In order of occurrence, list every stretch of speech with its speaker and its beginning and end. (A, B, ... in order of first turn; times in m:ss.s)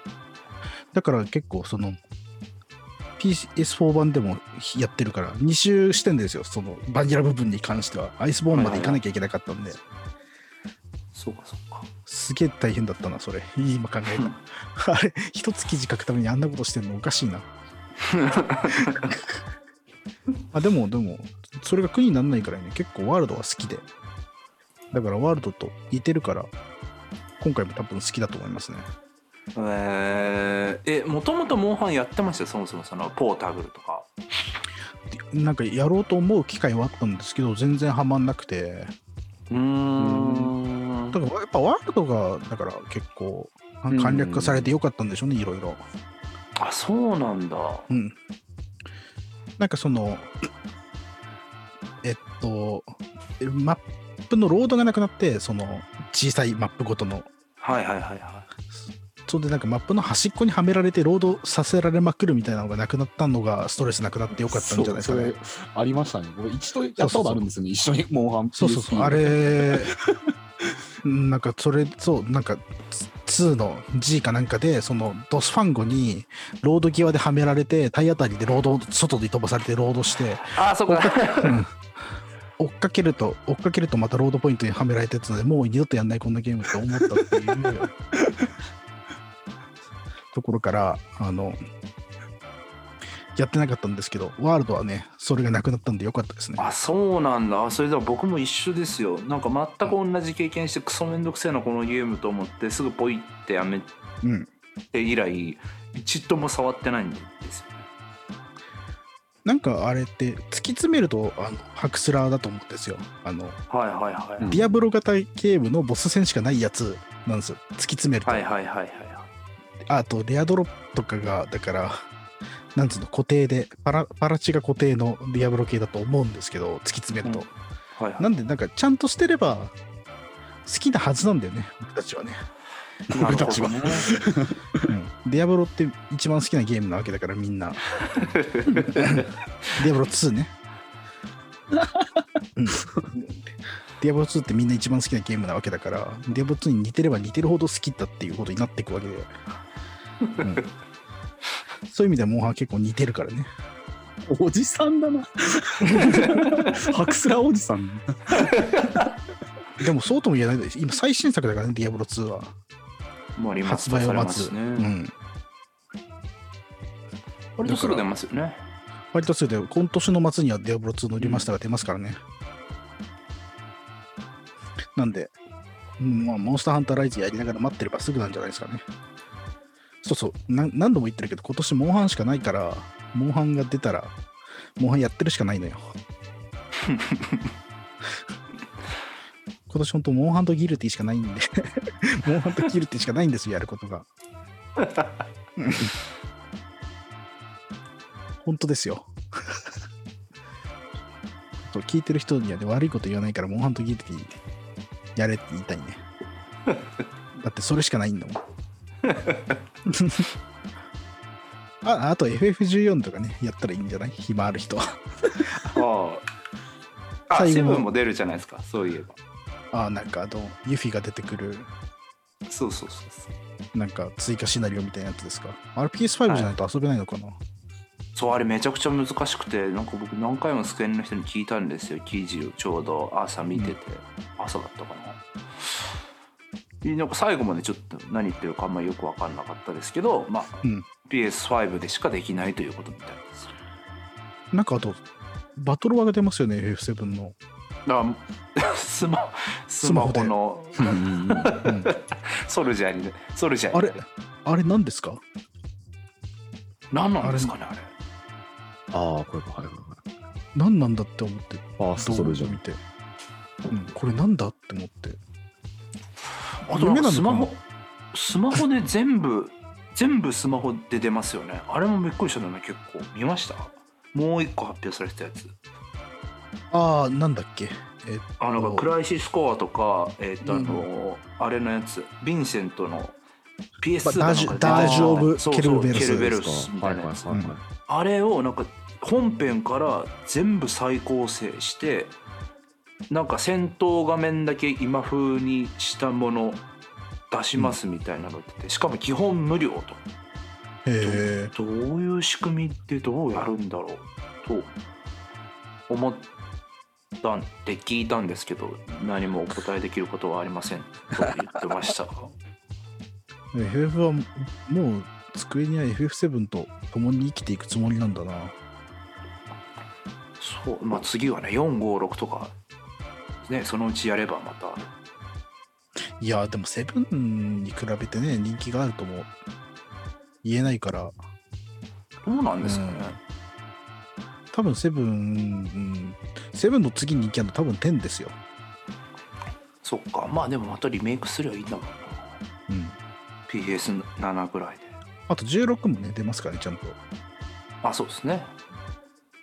0:00.9-0:02.0 A
0:03.2-0:09.8 A
0:08.5-0:09.0 B
0:11.1-0:11.9 B
0:12.1-0:17.5 A
0:18.0-0:19.1 B
0:18.8-0:19.4 A
0:20.5-0:23.9 A
0:24.9-0:26.5 A
0:27.4-0:28.9 A
0:29.5-0:34.1 B
0:35.1-0:38.9 A
0:39.5-0:41.2 B
0:40.0-0:40.5 C
0:41.1-0:45.8 A
0:43.9-0:44.7 C
0:46.6-0:47.9 B
0:47.9-0:48.2 A
0:49.6-0:50.3 A
0:52.0-0:57.3 A
0:57.6-0:58.5 B
0:59.2-1:05.4 A
1:04.4-1:10.2 C
1:07.0-1:07.4 A
1:08.5-1:09.9 A
1:11.0-1:21.8 A
1:20.5-1:21.6 B
1:22.6-1:27.9 A
1:30.3-1:31.6 A
1:33.3-1:36.7 A
1:36.6-1:43.9 B
1:44.2-1:44.5 A
1:44.9-1:47.8 B
1:49.4-1:53.6 A
1:53.7-1:54.5 B
1:54.4-1:54.7 C
1:54.5-1:58.4 A
1:58.2-1:59.3 B
1:59.9-2:02.0 A
2:02.7-2:07.5 A
2:08.0-2:08.3 B
2:08.2-2:09.7 A
2:10.6-2:12.4 A
2:13.1-2:14.9 C
2:13.2-2:14.1 B
2:13.2-2:14.0 A
2:14.9-2:17.8 A
2:18.2-2:19.3 B
2:18.7-2:20.5 A
2:21.8-2:22.1 C
2:22.6-2:22.8 A
2:23.1-2:23.4 B
2:24.0-2:29.3 A
2:31.9-2:33.5 A
2:34.2-2:39.0 C
2:36.2-2:36.6 B
2:38.5-2:38.9 B
2:39.8-2:42.5 A
2:43.4-2:44.9 B
2:43.6-2:45.1 A
2:47.6-2:48.0 A
2:47.6-2:48.6 B
2:49.1-2:52.2 A
2:51.2-2:51.5 B
2:55.0-2:55.3 A
2:56.0-2:58.8 A
3:00.0-3:04.1 A
3:04.8-3:05.8 A
3:06.9-3:07.4 B
3:09.7-3:14.1 A
3:15.6-3:15.9 A
3:18.4-3:19.7 A
3:21.6-3:24.3 A
3:25.1-3:26.0 A
3:27.4-3:28.4 A
3:29.1-3:29.5 B
3:29.9-3:30.2 A
3:31.8-3:35.8 A
3:35.7-3:36.3 B
3:37.3-3:39.2 B
3:37.3-3:37.9 A
3:39.7-3:41.7 A
3:42.5-3:43.3 B
3:43.7-3:47.4 A
3:48.1-3:55.2 B
3:56.8-4:03.5 B
4:04.5-4:05.0 A
4:05.6-4:07.4 A
4:07.8-4:14.0 B
4:09.8-4:10.3 A
4:10.8-4:11.5 C
4:11.6-4:11.9 A
4:13.7-4:15.2 A
4:16.9-4:17.9 B
4:17.2-4:17.5 A
4:18.9-4:20.0 C
4:20.5-4:22.8 A
4:21.8-4:22.6 C
4:23.7-4:25.2 A
4:26.7-4:27.5 A
4:26.7-4:27.6 B
4:28.1-4:35.5 B
4:36.7-4:38.9 A
4:38.4-4:43.2 B
4:40.4-4:40.9 A
4:43.8-4:47.3 B
4:44.0-4:45.2 C
4:44.2-4:46.3 A
4:45.9-4:47.6 C
4:47.9-4:52.1 B
4:53.1-4:56.6 B
4:57.3-5:00.0 B
5:00.8-5:01.5 A
5:01.0-5:04.7 B
5:05.9-5:06.3 B
5:07.2-5:12.3 B
5:13.5-5:18.5 A
5:20.4-5:22.5 B
5:23.4-5:24.8 B
5:26.2-5:29.3 A
5:30.4-5:31.2 A
5:32.2-5:33.2 B
5:32.6-5:33.2 A
5:34.5-5:38.4 A
5:39.8-5:42.3 B
5:42.7-5:43.0 A
5:43.5-5:44.9 B
5:45.3-5:47.0 A
5:47.8-5:48.5 B